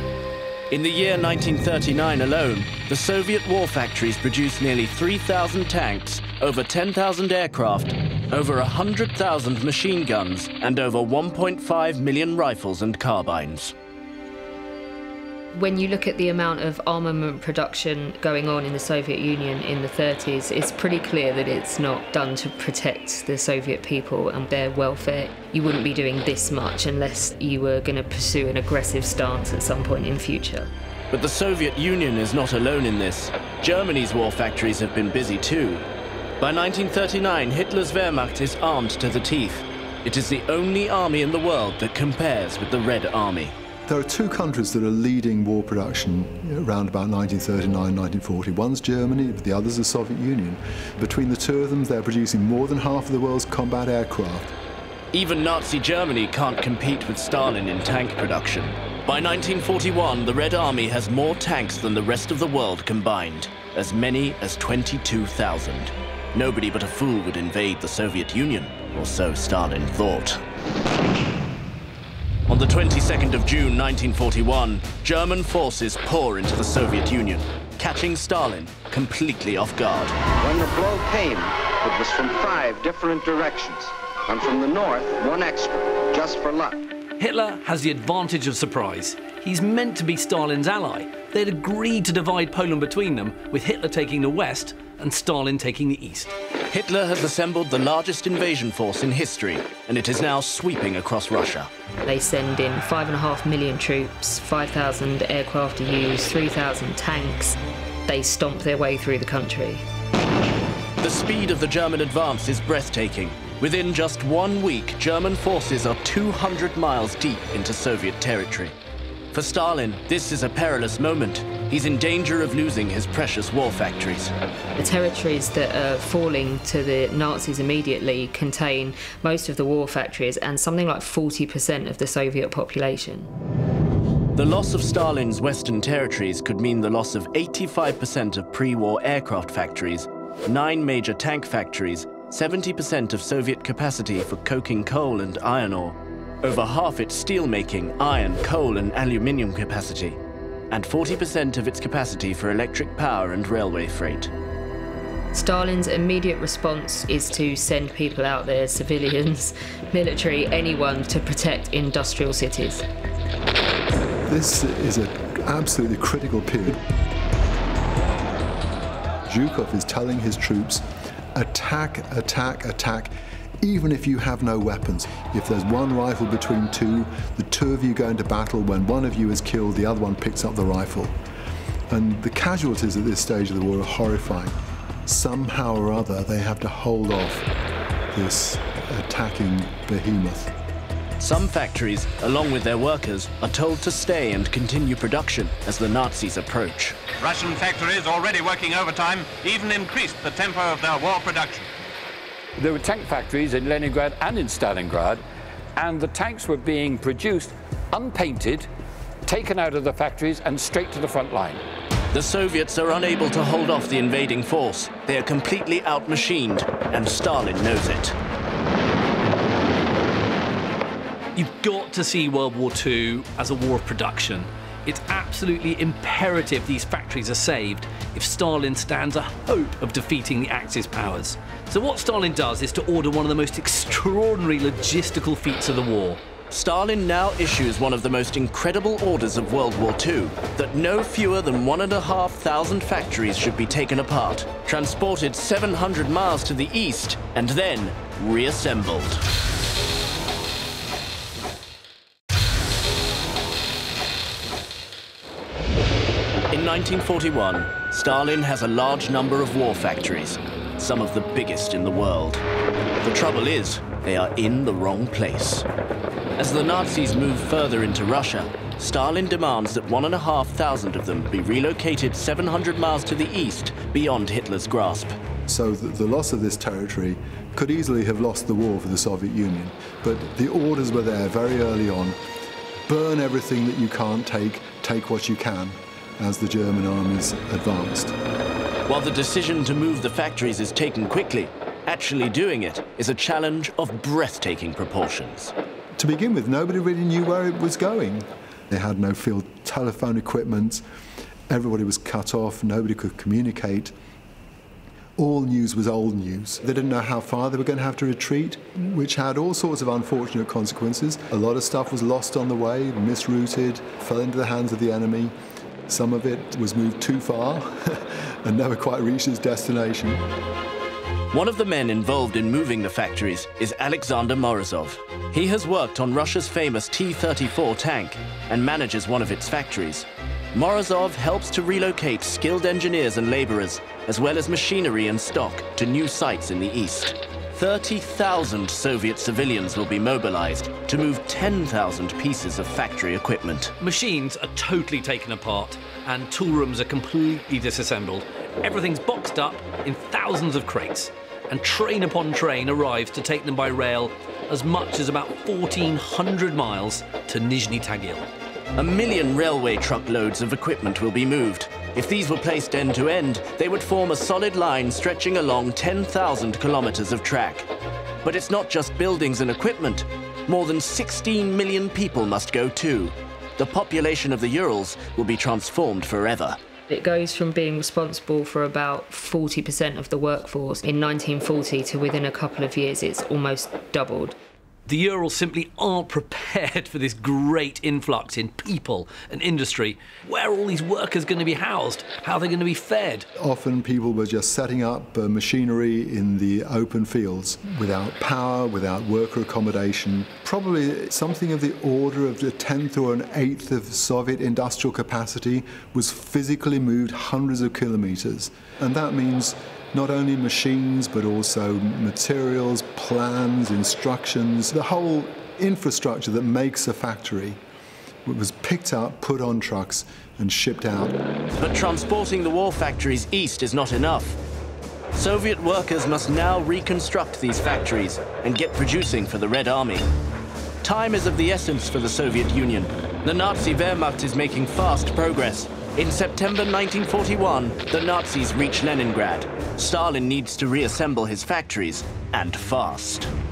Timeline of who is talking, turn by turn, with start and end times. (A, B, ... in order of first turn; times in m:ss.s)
0:00.7-0:13.7 A
0:15.5-0:30.7 B
0:31.1-0:35.8 A
0:36.4-0:43.5 A
0:43.9-0:54.5 C
0:55.1-1:10.4 A
1:12.5-1:20.2 A
1:20.4-1:26.8 D
1:27.2-1:36.3 E
1:36.7-1:41.7 A
1:42.0-1:49.8 B
1:51.0-1:58.7 A
1:59.3-2:04.3 A
2:04.8-2:13.3 B
2:14.4-2:30.2 A
2:30.7-2:34.3 A
2:35.3-2:42.8 B
2:44.3-2:46.8 C
2:49.2-3:01.2 C
3:01.9-3:07.4 C
3:08.1-3:10.5 C
3:11.2-3:17.0 A
3:17.2-3:21.7 F
3:22.6-3:25.2 G
3:25.8-3:28.7 G
3:29.2-3:31.6 G
3:32.1-3:38.2 A
3:41.3-3:56.2 E
3:56.5-4:09.2 A
4:16.5-4:22.4 A
4:23.0-4:25.7 A
4:26.4-4:35.2 A
4:35.4-4:42.2 C
4:42.9-4:48.2 C
4:48.9-4:55.5 A
4:56.0-5:00.8 C
5:01.5-5:03.9 C
5:05.2-5:15.3 C
5:15.9-5:20.2 C
5:21.3-5:43.7 A
5:43.8-5:58.2 E
5:58.8-6:07.7 A
6:08.2-6:16.6 A
6:16.9-6:24.4 B
6:24.9-6:33.2 E
6:33.4-6:57.6 C
6:58.2-7:01.2 C
7:01.6-7:04.4 A
7:05.1-7:10.1 A
7:10.8-7:23.3 A